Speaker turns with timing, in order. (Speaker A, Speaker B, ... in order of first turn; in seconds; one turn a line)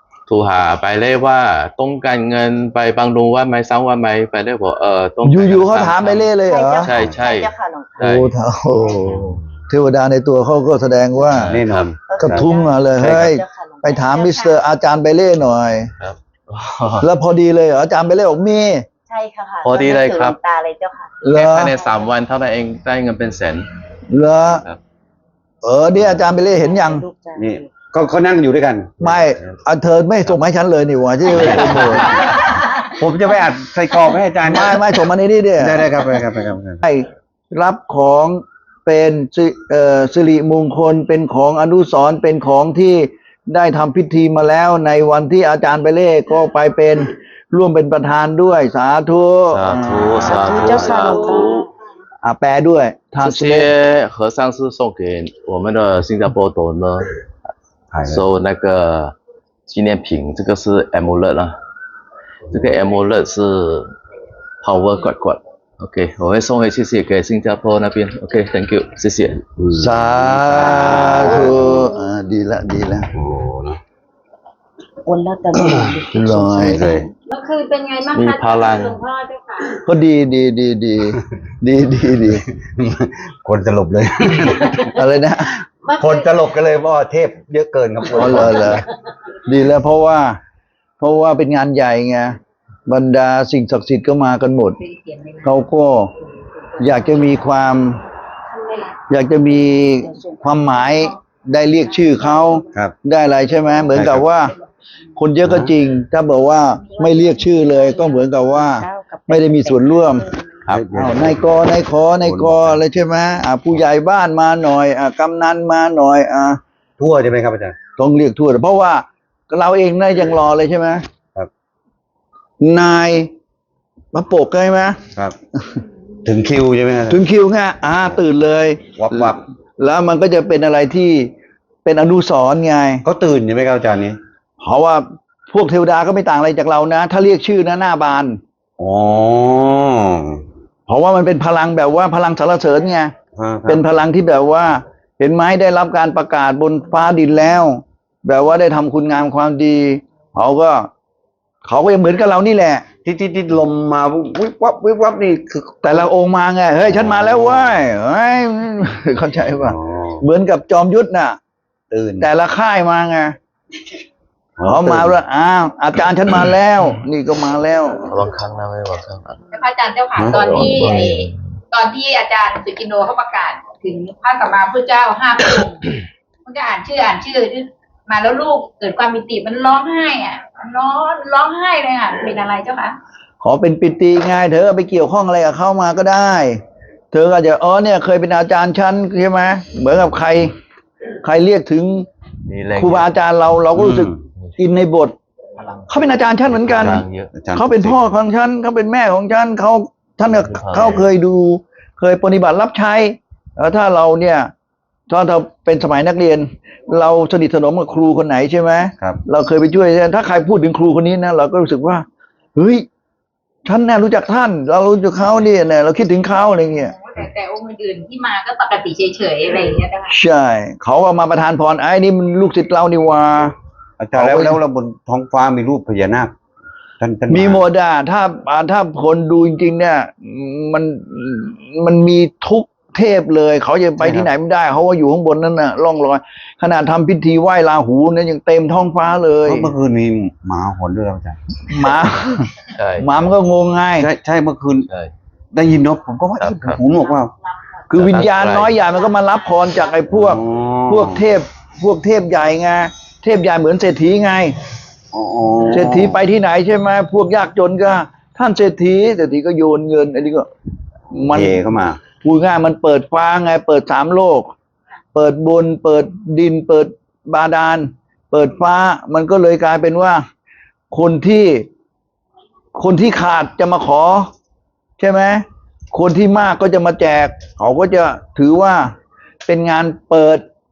Speaker A: 0.3-8.3
Speaker B: 5.2-7.0
Speaker C: 6.5-8.0
Speaker D: 6.9-7.3
Speaker B: 8.0-11.5
Speaker D: 9.0-9.4
Speaker A: 11.3-11.9
Speaker D: 11.5-13.3
Speaker C: 12.1-14.6
Speaker B: 12.2-15.9
Speaker A: 16.0-17.1
Speaker B: 17.0-18.9
Speaker C: 19.1-21.1
Speaker A: 19.6-20.4
Speaker B: 21.2-21.7
Speaker A: 21.2-23.7
Speaker B: 24.1-24.6
Speaker B: 25.6-27.1
Speaker C: 26.5-27.7
Speaker D: 27.4-29.3
Speaker B: 29.0-32.2
Speaker D: 31.3-34.9
Speaker A: 31.4-32.3
Speaker B: 34.5-35.9
Speaker D: 35.6-36.8
Speaker B: 36.8-51.1
Speaker A: 49.5-51.7
Speaker C: 50.4-51.5
Speaker E: 51.1-51.4
Speaker B: 52.2-53.7
Speaker A: 53.2-57.1
Speaker D: 57.9-58.2
Speaker A: 58.1-59.1
Speaker A: 59.7-61.5
Speaker A: 62.5-63.9
Speaker A: 64.6-69.4
Speaker D: 69.6-71.9
Speaker B: 69.7-73.1
Speaker A: 70.7-71.8
Speaker D: 73.1-73.8
Speaker C: 75.0-77.0
Speaker B: 75.5-77.0
Speaker D: 76.6-77.1
Speaker E: 77.3-79.8
Speaker A: 78.1-79.0
Speaker B: 79.8-82.4
Speaker D: 82.5-84.9
Speaker B: 85.0-85.5
Speaker E: 85.8-86.3
Speaker D: 86.0-88.8
Speaker B: 88.1-88.9
Speaker B: 89.5-90.4
Speaker B: 91.0-94.8
Speaker F: 94.8-95.6
Speaker B: 95.4-96.1
Speaker B: 96.8-98.0
Speaker B: 99.1-104.5
Speaker C: 100.0-100.5
Speaker D: 103.9-104.3
Speaker B: 105.2-116.6
Speaker D: 105.4-105.7
Speaker F: 107.0-107.5
Speaker C: 107.8-108.2
Speaker C: 108.7-110.4
Speaker D: 110.7-112.8
Speaker D: 117.0-117.8
Speaker B: 118.0-121.0
Speaker B: 122.6-123.3
Speaker B: 124.1-125.0
Speaker D: 126.2-127.2
Speaker B: 127.1-131.3
Speaker D: 128.9-129.4
Speaker B: 131.8-133.0
Speaker D: 133.0-134.2
Speaker B: 134.6-138.4
Speaker D: 138.8-140.4
Speaker B: 140.9-143.1
Speaker D: 143.4-143.8
Speaker B: 143.7-150.9
Speaker B: 151.6-152.8
Speaker D: 153.0-155.9
Speaker B: 155.8-161.4
Speaker D: 156.9-157.8
Speaker D: 159.6-160.2
Speaker D: 161.9-162.3
Speaker B: 162.2-163.4
Speaker D: 164.6-165.2
Speaker B: 164.6-168.1
Speaker A: 168.0-169.4
Speaker F: 169.5-175.9
Speaker D: 170.2-170.9
Speaker A: 170.3-171.4
Speaker F: 176.5-183.0
Speaker B: 183.4-186.6
Speaker B: 187.1-190.5
Speaker B: 191.2-192.1
Speaker A: 192.5-193.1
Speaker B: 192.8-195.2
Speaker D: 193.8-194.2
Speaker A: 195.6-197.3
Speaker B: 195.9-197.0
Speaker D: 196.8-198.0
Speaker B: 197.6-204.5
Speaker A: 200.3-201.1
Speaker B: 205.1-212.1
Speaker B: 212.6-212.9
Speaker B: 213.7-216.9
Speaker F: 216.8-220.1
Speaker B: 220.1-223.5
Speaker D: 224.0-226.3
Speaker B: 224.1-224.6
Speaker D: 227.0-227.7
Speaker B: 227.3-239.7
Speaker D: 234.0-234.3
Speaker D: 239.4-241.4
Speaker B: 241.7-244.1
Speaker A: 242.8-243.1
Speaker D: 244.0-244.9
Speaker A: 244.9-245.1
Speaker D: 245.5-247.3
Speaker A: 246.4-246.8
Speaker E: 246.9-248.1
Speaker B: 247.9-254.6
Speaker A: 247.9-248.8
Speaker E: 248.8-250.0
Speaker D: 250.1-251.2
Speaker D: 255.1-256.2
Speaker B: 255.7-260.5
Speaker B: 261.1-264.5
Speaker D: 261.1-262.0
Speaker B: 265.1-270.2
Speaker B: 270.9-271.7
Speaker B: 272.8-274.3
Speaker B: 275.0-278.9
Speaker B: 279.4-280.4